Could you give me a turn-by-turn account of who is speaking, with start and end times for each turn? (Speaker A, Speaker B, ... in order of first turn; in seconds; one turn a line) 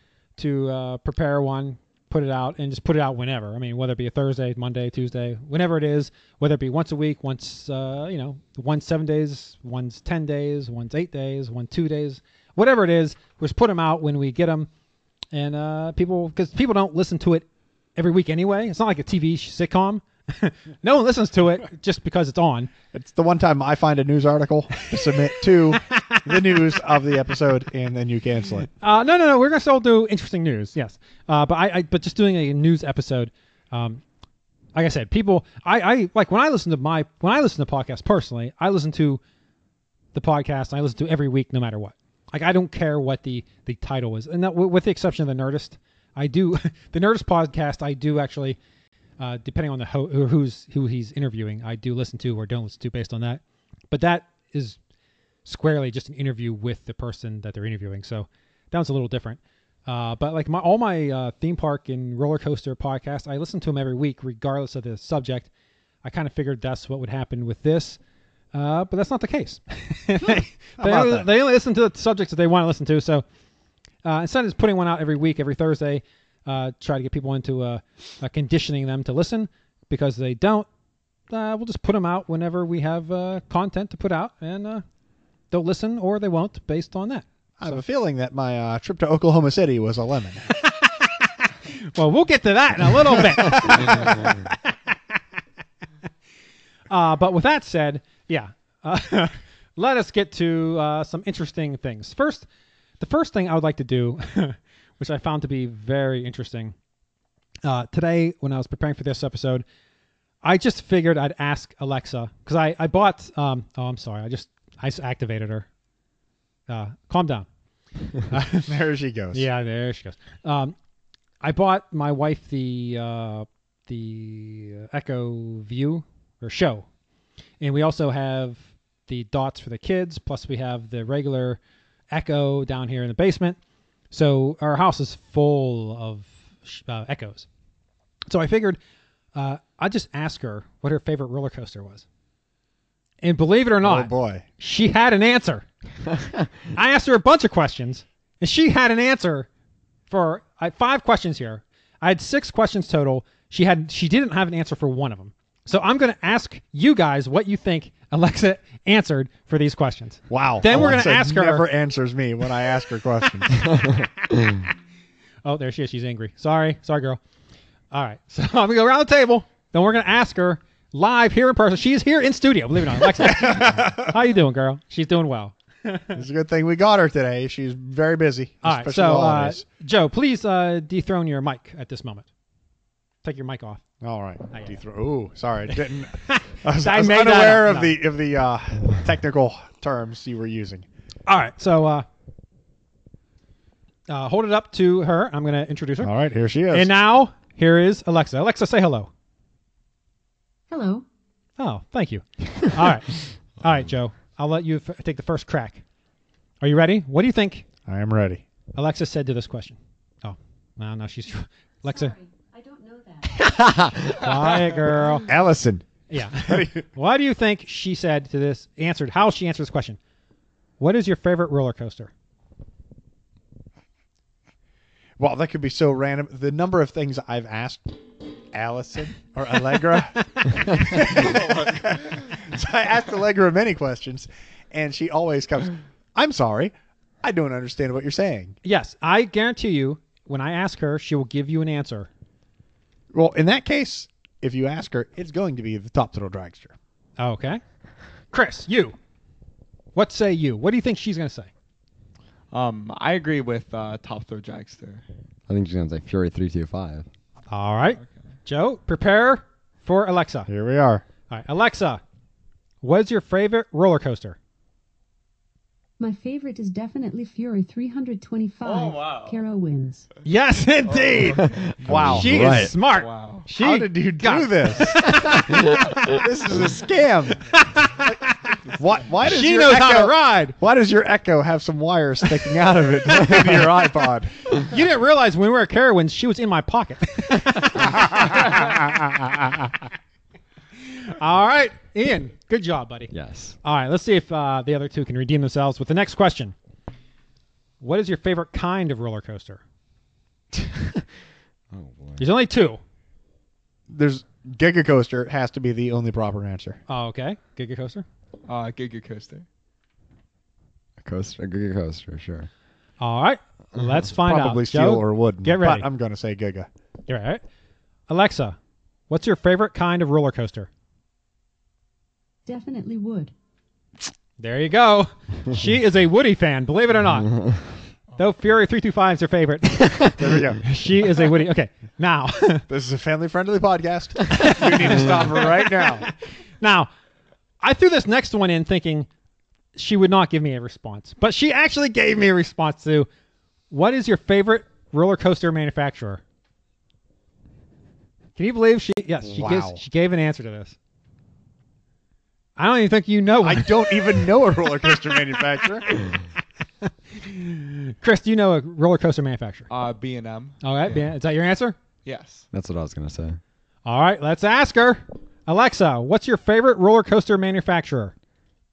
Speaker A: 0.4-14.7
Speaker A: 15.3-22.7
Speaker B: 22.9-28.7
Speaker A: 25.7-26.5
Speaker A: 28.8-34.0
Speaker A: 34.7-39.2
Speaker A: 40.1-48.6
Speaker A: 49.2-54.8
Speaker A: 55.4-65.5
Speaker A: 66.0-68.0
Speaker A: 68.5-73.2
Speaker B: 70.8-71.3
Speaker A: 74.0-80.7
Speaker A: 81.3-84.8
Speaker A: 85.5-87.8
Speaker B: 87.6-90.5
Speaker A: 90.6-94.6
Speaker A: 96.9-102.5
Speaker A: 103.0-106.7
Speaker A: 107.6-109.6
Speaker A: 110.4-115.7
Speaker A: 116.7-117.5
Speaker A: 118.3-118.7
Speaker B: 118.6-119.5
Speaker A: 119.3-120.7
Speaker A: 121.4-126.8
Speaker A: 127.6-131.6
Speaker A: 132.1-133.6
Speaker A: 134.1-137.5
Speaker A: 138.3-138.8
Speaker A: 139.3-142.0
Speaker A: 143.2-145.7
Speaker B: 143.8-144.4
Speaker A: 146.7-149.5
Speaker A: 150.1-161.7
Speaker B: 160.3-163.9
Speaker A: 165.4-167.2
Speaker A: 167.9-176.2
Speaker B: 173.2-174.1
Speaker B: 176.1-179.6
Speaker A: 178.6-182.2
Speaker A: 183.2-183.8
Speaker B: 184.0-190.8
Speaker A: 184.5-184.8
Speaker A: 186.2-188.0
Speaker A: 191.2-192.1
Speaker A: 194.1-196.1
Speaker B: 196.0-196.9
Speaker A: 196.7-199.1
Speaker C: 200.7-201.1
Speaker A: 201.6-205.8
Speaker A: 206.6-207.7
Speaker B: 207.9-208.4
Speaker A: 208.7-212.1
Speaker C: 211.8-213.5
Speaker A: 214.0-215.3
Speaker B: 215.2-215.9
Speaker A: 216.1-220.0
Speaker B: 216.4-216.8
Speaker A: 220.8-222.1
Speaker B: 225.2-227.9
Speaker B: 228.5-238.6
Speaker A: 238.6-242.1
Speaker B: 243.1-246.7
Speaker A: 247.2-247.6
Speaker A: 248.3-248.9
Speaker A: 249.9-251.5
Speaker D: 252.5-255.0
Speaker E: 255.5-257.1
Speaker A: 257.5-260.5
Speaker B: 260.5-261.0
Speaker A: 261.3-262.0
Speaker A: 262.8-264.4
Speaker C: 266.0-270.1
Speaker D: 268.6-269.3
Speaker A: 270.2-271.5
Speaker D: 270.8-271.6
Speaker E: 271.4-272.7
Speaker B: 271.8-272.7
Speaker A: 272.1-275.7
Speaker D: 272.8-273.5
Speaker B: 273.5-277.5
Speaker A: 277.5-278.1
Speaker B: 278.7-284.3
Speaker A: 279.2-280.6
Speaker A: 284.6-288.7
Speaker B: 287.8-288.8
Speaker A: 291.0-293.1
Speaker E: 293.1-293.6
Speaker A: 293.6-296.5
Speaker A: 297.8-299.6
Speaker E: 301.7-302.2
Speaker A: 302.2-302.8
Speaker B: 303.9-306.8
Speaker A: 306.9-308.0
Speaker D: 308.4-309.4
Speaker E: 311.0-312.5
Speaker A: 313.0-315.9
Speaker B: 314.1-316.7
Speaker A: 317.1-317.4
Speaker A: 318.1-318.6
Speaker A: 319.1-320.7
Speaker C: 322.4-323.3
Speaker A: 324.4-327.4
Speaker A: 328.1-332.6
Speaker B: 330.2-330.6
Speaker B: 332.7-336.1
Speaker A: 334.3-335.7
Speaker A: 336.6-336.9
Speaker A: 337.6-339.1
Speaker A: 339.7-343.1
Speaker A: 343.7-346.2
Speaker A: 348.4-350.8
Speaker B: 349.2-349.8
Speaker A: 352.6-354.3
Speaker B: 353.4-356.1
Speaker A: 356.8-359.7
Speaker D: 359.7-361.1
Speaker A: 360.6-361.8
Speaker D: 362.0-362.5
Speaker E: 362.5-363.4
Speaker A: 363.8-368.1